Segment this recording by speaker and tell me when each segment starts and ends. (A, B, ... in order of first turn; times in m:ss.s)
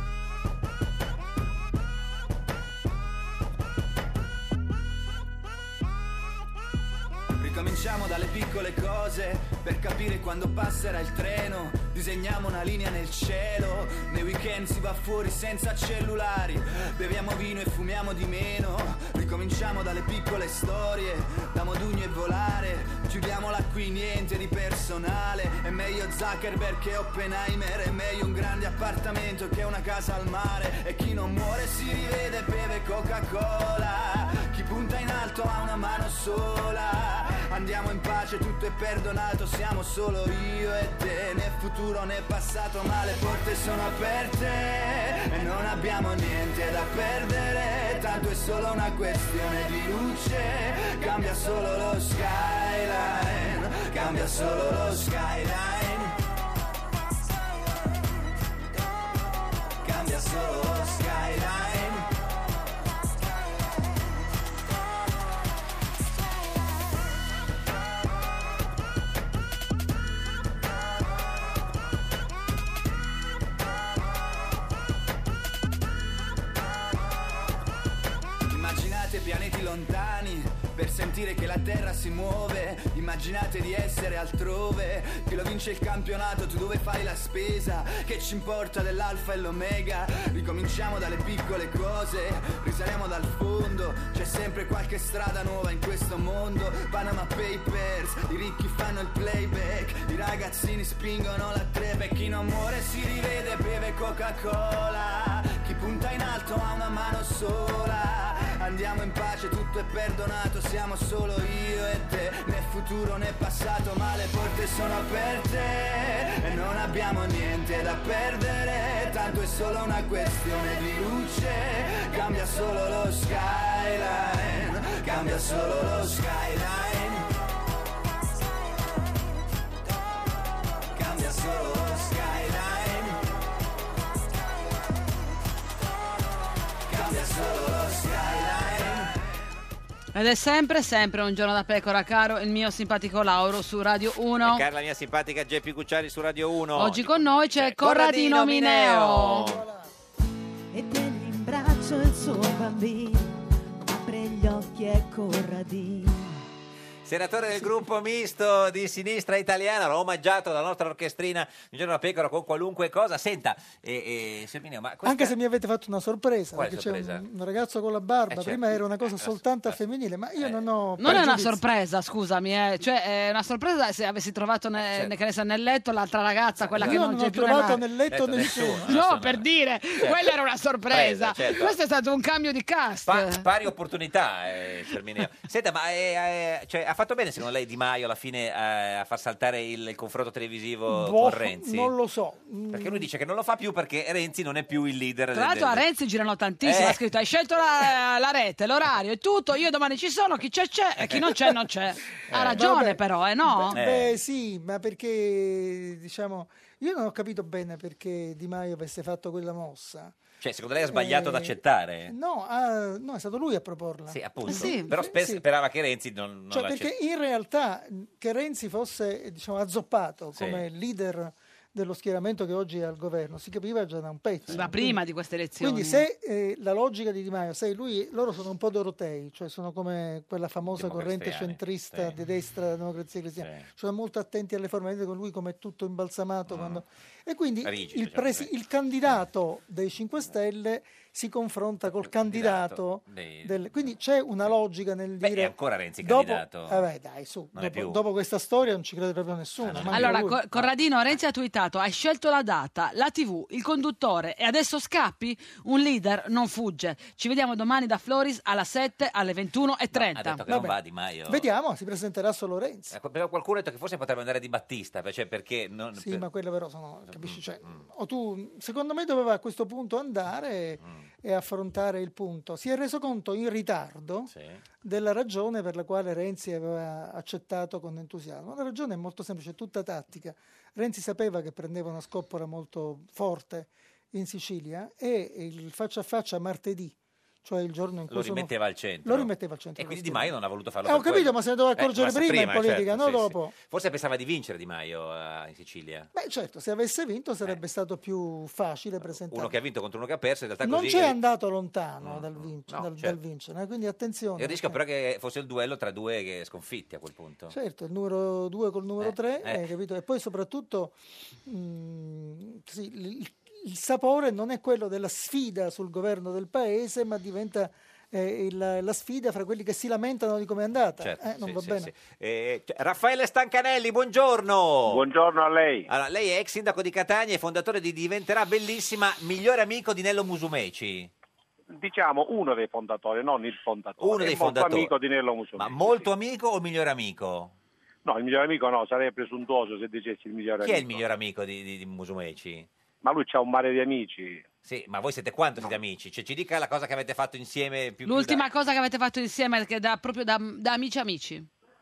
0:07.4-0:56.1 A
0:59.8-1:02.1 A
1:18.5-2:07.2 A
2:11.0-2:13.2 A
2:16.9-2:19.1 A
2:20.1-2:24.6 B
2:24.4-2:29.6 C
2:26.8-2:29.5 B
2:29.4-2:29.9 D
2:30.7-2:36.4 E
2:37.0-2:45.4 C
2:45.0-2:51.6 D
2:46.5-2:47.3 C
2:48.3-2:49.8 C
2:50.4-2:51.2 C
2:51.0-2:57.8 B
2:54.8-2:55.1 C
2:56.6-2:57.0 C
2:56.8-2:58.9 D
2:58.1-2:59.4 C
2:58.4-3:03.4 B
3:00.0-3:00.3 C
3:00.9-3:01.7 C
3:03.1-3:11.9 C
3:10.9-3:13.1 D
3:12.7-3:15.8 C
3:15.3-3:23.8 B
3:16.6-3:17.0 C
3:21.0-3:21.3 C
3:22.3-3:22.7 C
3:22.6-3:30.2 D
3:23.7-3:24.2 C
3:30.4-3:32.1 C
3:30.9-3:35.4 D
3:34.1-3:36.9 C
3:34.5-3:34.9 B
3:36.5-3:45.0 D
3:40.4-3:40.6 C
3:44.5-3:46.0 B
3:45.6-4:10.4 D
3:50.7-3:52.2 C
3:53.4-3:53.7 C
3:56.5-3:56.8 C
3:57.6-3:58.5 C
4:02.0-4:03.9 C
4:05.2-4:06.8 C
4:07.5-4:08.0 C
4:09.6-4:10.7 C
4:09.9-4:20.4 B
4:19.9-4:21.5 C
4:20.5-4:20.8 D
4:21.3-4:23.0 D
4:22.9-4:26.3 C
4:26.0-4:34.3 D
4:27.1-4:27.8 C
4:30.8-4:31.1 C
4:34.3-4:34.6 C
4:34.8-4:48.5 D
4:48.1-4:56.1 C
4:49.0-4:53.5 D
4:56.1-4:59.6 D
4:59.0-5:01.2 C
5:00.6-5:04.8 D
5:02.0-5:03.2 C
5:04.4-5:07.5 C
5:07.5-5:21.9 D
5:09.0-5:09.7 C
5:21.0-5:25.0 C
5:24.9-5:25.9 F
5:25.9-5:31.1 C
5:31.7-5:36.1 F
5:34.0-5:34.9 C
5:35.6-5:37.5 C
5:38.0-5:41.0 F
5:40.6-5:42.7 C
5:43.0-5:44.4 F
5:44.6-5:48.4 C
5:48.1-5:51.5 B